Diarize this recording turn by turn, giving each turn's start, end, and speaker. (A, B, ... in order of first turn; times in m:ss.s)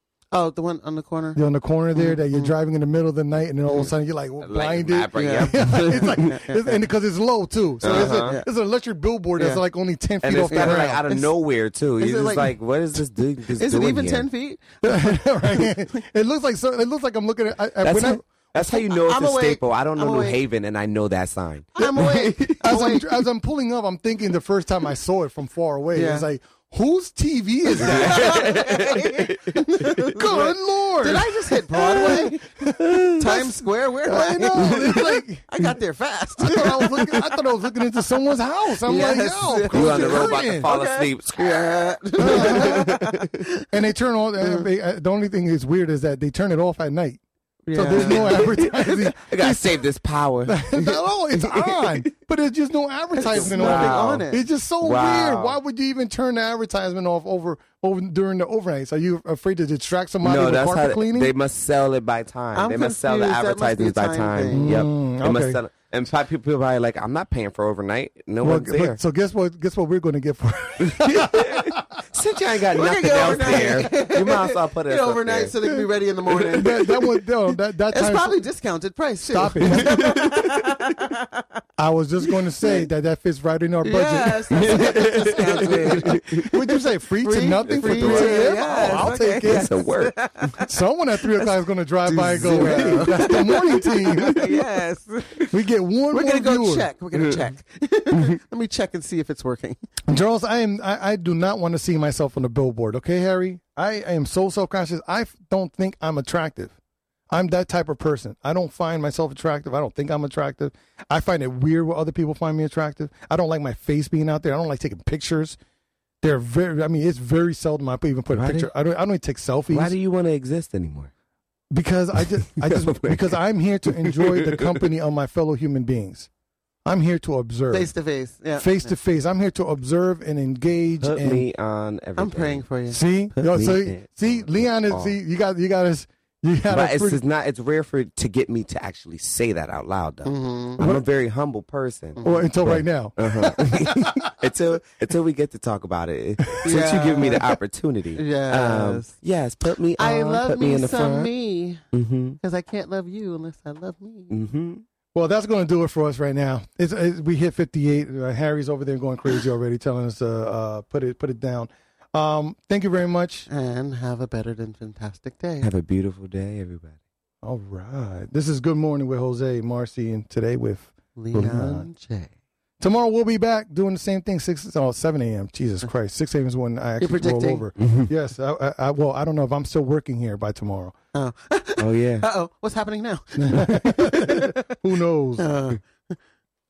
0:00.3-0:01.4 A
0:01.4-0:11.0 B
0:02.0-0:02.5 A
0:04.4-0:06.3 C
0:05.2-0:06.8 A
0:07.8-0:08.5 A
0:07.8-0:08.4 C
0:09.4-0:09.6 A
0:10.2-0:14.3 C
0:10.5-0:11.4 A
0:12.0-0:12.6 A
0:13.6-0:16.0 A
0:14.8-0:18.3 B
0:17.8-0:23.0 C
0:18.6-0:20.4 A
0:21.8-0:23.1 A
0:21.8-0:29.0 B
0:26.0-0:26.3 A
0:27.7-0:32.6 A
0:27.8-0:30.5 C
0:30.1-0:35.8 B
0:31.9-0:33.3 C
0:33.2-0:37.4 A
0:34.5-0:35.1 C
0:36.4-0:40.7 B
0:36.8-0:37.1 C
0:38.8-0:43.7 A
0:39.7-0:43.2 C
0:42.2-0:43.0 B
0:43.7-0:47.2 B
0:47.7-0:48.5 A
0:47.7-0:49.8 B
0:47.8-0:52.1 C
0:50.5-1:01.3 B
0:53.2-0:54.3 C
0:53.3-0:54.4 A
0:54.8-0:55.6 C
1:00.2-1:09.0 C
1:02.6-1:04.8 A
1:04.5-1:05.6 B
1:08.4-1:12.0 B
1:10.8-1:15.6 C
1:12.7-1:17.2 A
1:13.2-1:13.9 B
1:16.3-1:16.9 C
1:16.5-1:18.4 B
1:17.9-1:21.6 A
1:19.2-1:20.1 B
1:19.7-1:20.7 C
1:21.8-1:29.8 B
1:22.6-1:22.9 A
1:23.8-1:30.7 A
1:24.5-1:26.5 C
1:27.6-1:30.6 C
1:30.6-1:34.7 B
1:31.3-1:35.5 A
1:32.3-1:34.5 C
1:35.4-1:36.9 B
1:36.1-1:39.8 A
1:37.1-1:37.4 C
1:40.0-1:46.8 B
1:47.3-1:55.6 B
1:56.2-1:59.9 B
1:58.3-1:58.7 C
1:59.7-2:01.1 C
2:01.7-2:06.3 B
2:02.5-2:04.8 C
2:06.8-2:07.9 B
2:07.7-2:08.9 A
2:08.6-2:11.5 B
2:11.0-2:12.7 C
2:12.2-2:13.0 A
2:12.9-2:17.2 B
2:13.3-2:15.2 C
2:16.7-2:31.3 C
2:20.3-2:20.8 A
2:20.8-2:21.0 B
2:22.2-2:24.5 B
2:26.5-2:27.5 B
2:26.6-2:27.4 A
2:28.2-2:29.1 A
2:30.0-2:31.8 A
2:31.9-2:32.4 C
2:32.4-2:34.3 A
2:34.3-2:34.8 C
2:35.1-2:43.5 B
2:43.5-2:45.7 A
2:45.6-2:47.0 C
2:47.4-2:51.9 B
2:51.2-2:52.3 A
2:52.8-3:01.0 B
2:57.0-2:57.7 A
2:57.8-2:58.1 C
3:01.1-3:04.8 A
3:01.8-3:02.3 C
3:03.4-3:05.5 B
3:05.4-3:06.2 A